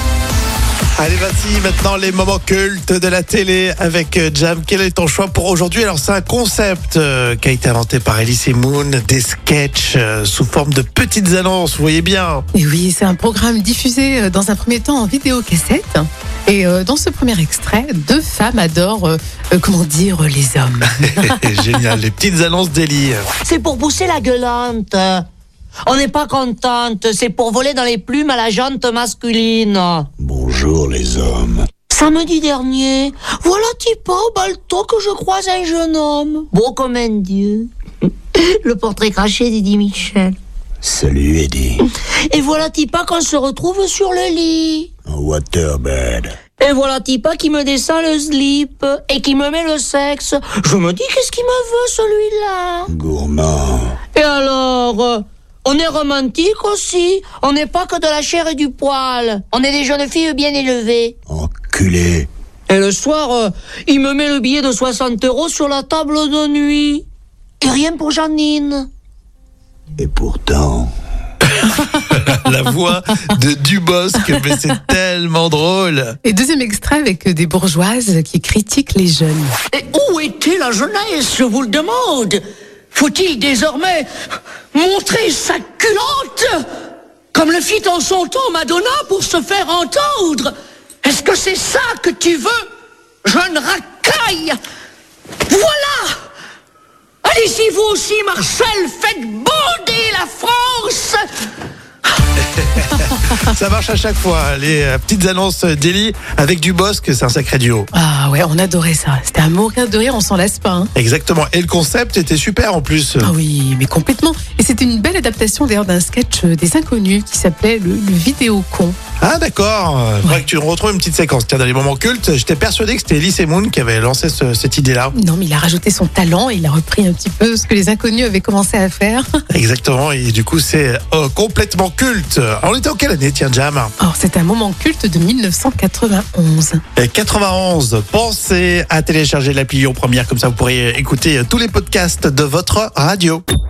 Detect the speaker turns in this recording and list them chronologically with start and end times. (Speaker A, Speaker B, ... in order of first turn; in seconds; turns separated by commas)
Speaker A: 1.0-12.4, Speaker B: 12.5-21.4, Speaker A: 21.1-23.2, Speaker C: 23.4-25.2, Speaker C: 25.9-30.1, Speaker D: 30.2-31.7, Speaker C: 31.9-37.7, Speaker C: 38.3-40.4, Speaker D: 40.8-41.8, Speaker C: 42.3-44.9, Speaker D: 45.1-46.4, Speaker C: 46.6-52.9, Speaker D: 52.9-54.0, Speaker C: 54.1-61.2, Speaker D: 61.3-62.3, Speaker C: 62.7-67.0, Speaker C: 67.6-68.9, Speaker D: 70.0-70.9, Speaker A: 72.0-76.2, Speaker B: 76.2-79.5, Speaker C: 79.7-84.1, Speaker C: 84.7-86.6, Speaker C: 87.3-90.5, Speaker C: 91.0-92.6, Speaker C: 93.2-94.6, Speaker C: 95.5-96.2, Speaker C: 97.2-101.2, Speaker A: 102.6-107.9, Speaker B: 107.9-110.9, Speaker A: 111.0-113.3, Speaker B: 113.2-119.0, Speaker A: 119.2-125.2, Speaker B: 125.2-129.3, Speaker A: 129.5-133.9, Speaker B: 134.0-136.8, Speaker A: 137.0-143.4